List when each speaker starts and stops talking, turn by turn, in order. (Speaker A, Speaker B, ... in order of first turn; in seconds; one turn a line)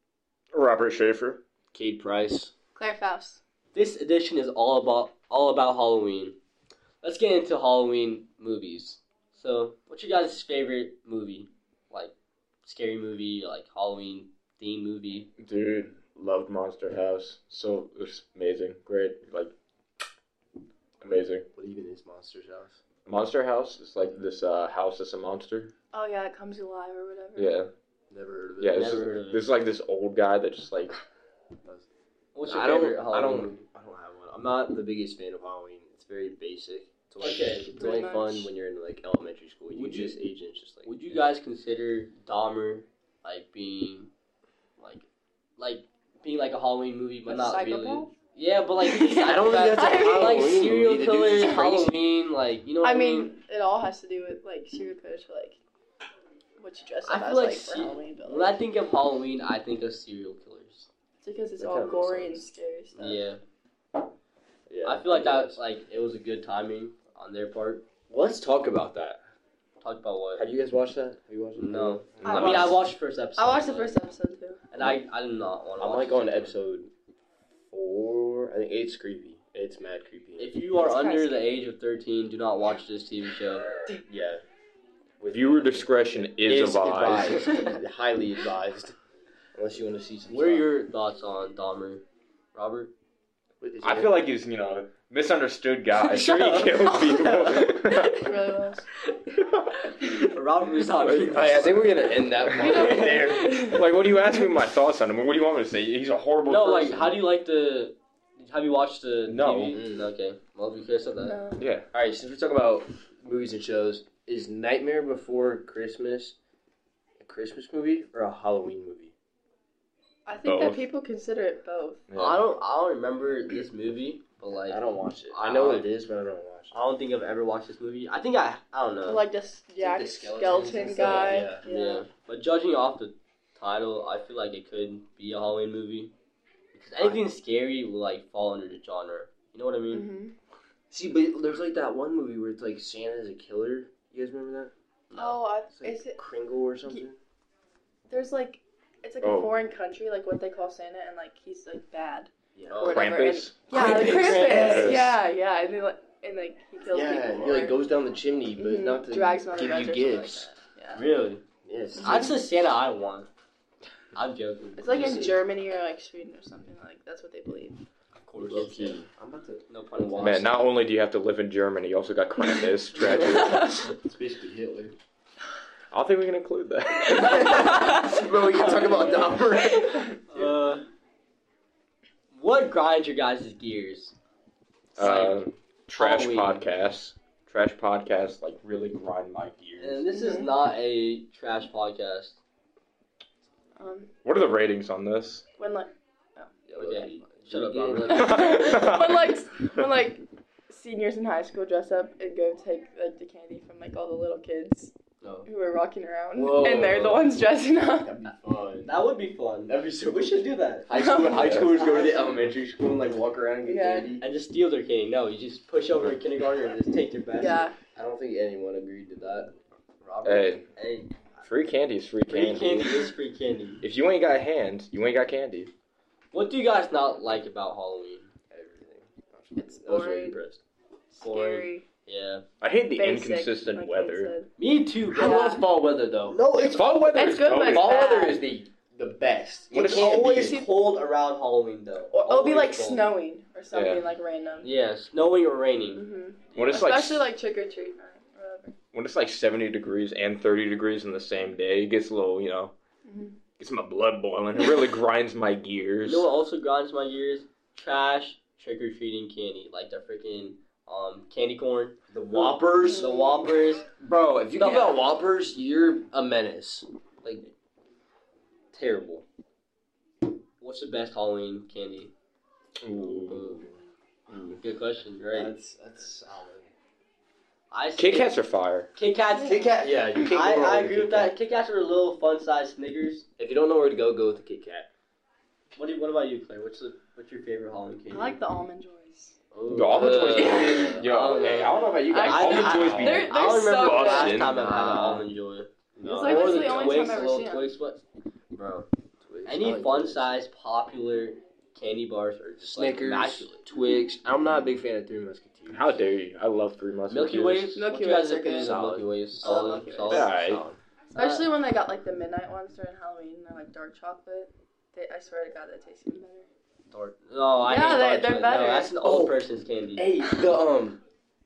Speaker A: 0.5-1.4
Speaker B: 1.7-2.5
Speaker C: 2.8-3.4
Speaker D: 3.7-6.4
Speaker D: 7.0-15.3
Speaker A: 15.4-19.5
Speaker A: 21.0-21.5
Speaker B: 21.5-22.8
Speaker A: 23.1-25.7
Speaker C: 25.9-27.6
Speaker A: 27.4-27.7
Speaker B: 28.1-29.1
Speaker A: 28.6-31.0
Speaker D: 28.7-29.5
Speaker D: 32.3-33.5
Speaker B: 32.4-40.9
Speaker D: 37.2-37.7
Speaker C: 37.2-38.5
Speaker D: 39.7-40.2
Speaker D: 40.8-44.1
Speaker D: 44.8-53.3
Speaker C: 47.2-48.1
Speaker C: 48.8-50.4
Speaker B: 49.2-51.9
Speaker C: 52.8-55.6
Speaker C: 56.6-58.6
Speaker D: 57.0-60.9
Speaker C: 61.2-63.3
Speaker B: 61.6-62.5
Speaker D: 63.0-63.4
Speaker B: 64.7-65.6
Speaker D: 64.8-67.8
Speaker B: 68.1-69.2
Speaker D: 69.8-70.4
Speaker B: 70.3-72.8
Speaker D: 71.6-74.0
Speaker C: 72.2-72.8
Speaker C: 73.4-74.7
Speaker D: 74.7-76.5
Speaker B: 75.8-76.9
Speaker B: 77.7-80.5
Speaker D: 80.4-83.7
Speaker C: 80.8-81.4
Speaker B: 84.1-84.4
Speaker B: 85.2-88.9
Speaker A: 85.3-87.4
Speaker D: 87.2-87.8
Speaker B: 89.5-90.7
Speaker D: 90.3-92.9
Speaker B: 93.6-94.2
Speaker A: 93.8-98.2
Speaker D: 96.0-98.3
Speaker C: 96.7-98.8
Speaker D: 99.1-103.2
Speaker A: 101.0-101.7
Speaker B: 101.3-103.6
Speaker A: 102.4-102.9
Speaker C: 102.5-103.9
Speaker A: 103.6-107.2
Speaker D: 106.5-111.4
Speaker A: 109.3-109.8
Speaker B: 109.7-110.1
Speaker C: 111.2-111.7
Speaker A: 111.5-111.9
Speaker B: 111.9-116.3
Speaker B: 117.2-119.1
Speaker C: 120.2-122.0
Speaker A: 120.4-120.8
Speaker A: 122.1-122.4
Speaker D: 122.1-125.9
Speaker B: 124.6-126.7
Speaker D: 126.7-129.2
Speaker C: 129.0-132.1
Speaker B: 129.8-131.6
Speaker D: 131.0-136.1
Speaker D: 136.7-140.1
Speaker C: 139.9-140.3
Speaker B: 140.9-144.7
Speaker D: 145.1-145.4
Speaker C: 145.1-146.3
Speaker B: 145.6-147.2
Speaker C: 148.1-157.8
Speaker A: 149.2-149.5
Speaker B: 152.6-153.1
Speaker A: 152.8-153.6
Speaker D: 153.7-155.0
Speaker A: 154.5-155.1
Speaker B: 156.9-160.5
Speaker C: 158.6-161.0
Speaker D: 160.9-161.4
Speaker B: 161.6-162.3
Speaker D: 162.0-163.3
Speaker D: 164.1-165.1
Speaker C: 164.8-167.8
Speaker B: 164.9-165.3
Speaker D: 168.1-169.0
Speaker B: 168.4-170.6
Speaker D: 169.7-170.6
Speaker A: 170.2-173.7
Speaker C: 173.4-173.7
Speaker B: 173.7-174.9
Speaker A: 175.9-177.6
Speaker B: 177.3-180.5
Speaker D: 178.5-179.2
Speaker D: 180.3-180.8
Speaker D: 182.3-184.1
Speaker A: 184.9-190.0
Speaker D: 185.0-185.4
Speaker D: 186.0-186.7
Speaker D: 189.8-192.4
Speaker C: 190.1-190.5
Speaker C: 193.8-194.1
Speaker A: 194.2-195.4
Speaker C: 195.6-196.6
Speaker B: 196.7-198.2
Speaker D: 196.8-198.6
Speaker C: 198.0-204.9
Speaker A: 198.1-199.4
Speaker D: 205.2-205.5
Speaker C: 205.4-208.1
Speaker B: 206.3-207.4
Speaker B: 208.0-208.9
Speaker D: 208.8-210.9
Speaker B: 210.9-214.2
Speaker C: 210.9-211.4
Speaker C: 213.6-214.1
Speaker D: 214.2-217.7
Speaker C: 217.4-217.8
Speaker B: 217.9-219.5
Speaker D: 220.0-221.1
Speaker A: 220.2-220.6
Speaker A: 221.4-223.1
Speaker D: 222.3-223.8
Speaker A: 223.8-225.7
Speaker D: 226.3-228.3
Speaker B: 228.5-230.5
Speaker C: 229.5-230.4
Speaker D: 230.3-230.6
Speaker C: 231.1-231.9
Speaker D: 231.2-232.4
Speaker A: 232.6-234.3
Speaker C: 232.9-234.5
Speaker D: 234.6-235.6
Speaker B: 235.1-236.4
Speaker C: 235.2-235.6
Speaker D: 236.3-237.0
Speaker A: 236.6-238.4
Speaker C: 237.1-238.4
Speaker B: 237.6-240.6
Speaker A: 239.7-240.3
Speaker D: 239.7-243.1
Speaker C: 240.3-240.8
Speaker C: 242.1-244.7
Speaker A: 243.7-244.1
Speaker D: 244.6-246.9
Speaker C: 245.9-248.7
Speaker A: 246.5-247.3
Speaker A: 248.9-252.7
Speaker C: 253.0-253.4
Speaker A: 253.6-256.3
Speaker D: 256.0-263.9
Speaker B: 262.1-263.4
Speaker C: 262.8-263.3
Speaker B: 263.9-267.4
Speaker D: 264.6-265.0
Speaker D: 268.7-269.2
Speaker D: 270.6-272.1
Speaker A: 272.8-273.5
Speaker D: 273.3-273.6
Speaker B: 273.3-273.7
Speaker D: 274.3-275.5
Speaker B: 275.2-276.7
Speaker D: 277.7-278.4
Speaker A: 277.9-278.9
Speaker D: 278.9-283.2
Speaker C: 279.3-279.6
Speaker B: 279.4-281.3
Speaker B: 283.4-284.9
Speaker D: 285.7-288.4
Speaker C: 288.1-289.4
Speaker D: 289.5-298.0
Speaker A: 289.7-294.6
Speaker B: 289.9-293.0
Speaker C: 290.3-294.4
Speaker B: 294.4-295.3
Speaker B: 296.0-297.2
Speaker C: 296.0-297.7
Speaker D: 298.5-298.9
Speaker B: 299.2-300.3
Speaker D: 299.4-303.6
Speaker B: 302.6-306.0
Speaker A: 305.7-307.7
Speaker D: 307.1-311.5
Speaker C: 307.7-308.7
Speaker B: 308.6-309.8
Speaker C: 309.4-310.3
Speaker A: 310.1-310.6
Speaker C: 311.1-316.5
Speaker D: 316.9-320.1
Speaker C: 317.6-319.0
Speaker B: 319.0-319.4
Speaker B: 319.9-321.0